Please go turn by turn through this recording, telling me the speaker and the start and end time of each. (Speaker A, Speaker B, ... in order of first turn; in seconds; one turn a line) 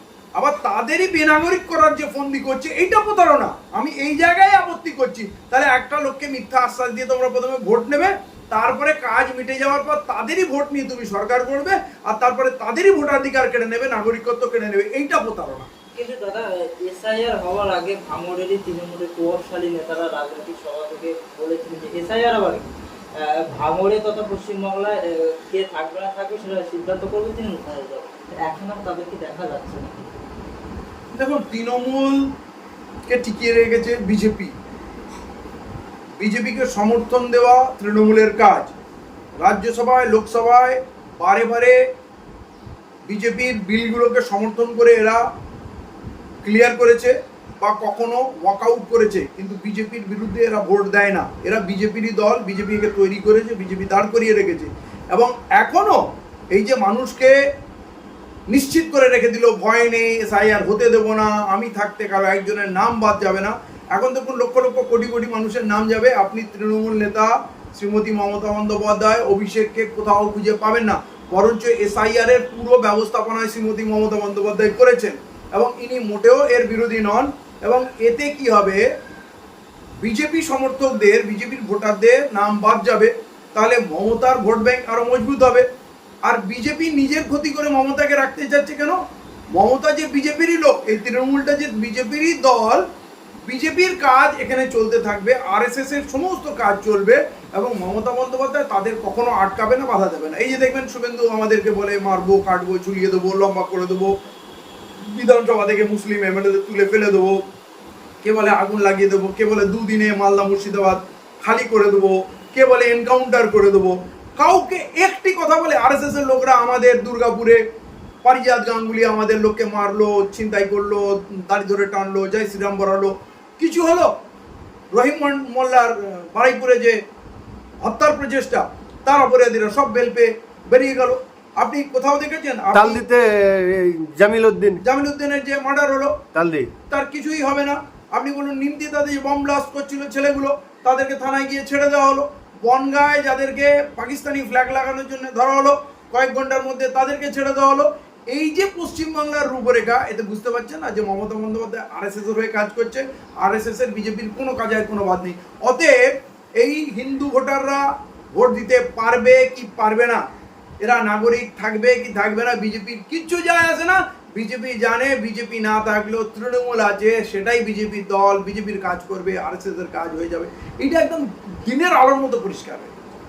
Speaker A: 0.3-15.7
Speaker B: 15.9-30.1
Speaker A: 31.1-32.3
Speaker A: 33.1-34.5
Speaker A: 36.2-38.7
Speaker A: 39.4-41.8
Speaker A: 43.1-45.2
Speaker A: 46.4-56.0
Speaker A: 56.5-57.3
Speaker A: 58.5-78.8
Speaker A: 80.0-85.7
Speaker A: 86.2-89.0
Speaker A: 89.5-92.8
Speaker A: 93.5-104.1
Speaker A: 105.1-107.4
Speaker A: 108.2-117.6
Speaker A: 118.2-124.1
Speaker A: 124.9-127.0
Speaker A: 127.8-133.0
Speaker C: 132.7-134.8
Speaker A: 134.8-136.2
Speaker C: 136.3-136.7
Speaker A: 136.9-156.0
Speaker A: 156.6-160.2
Speaker A: 160.8-172.9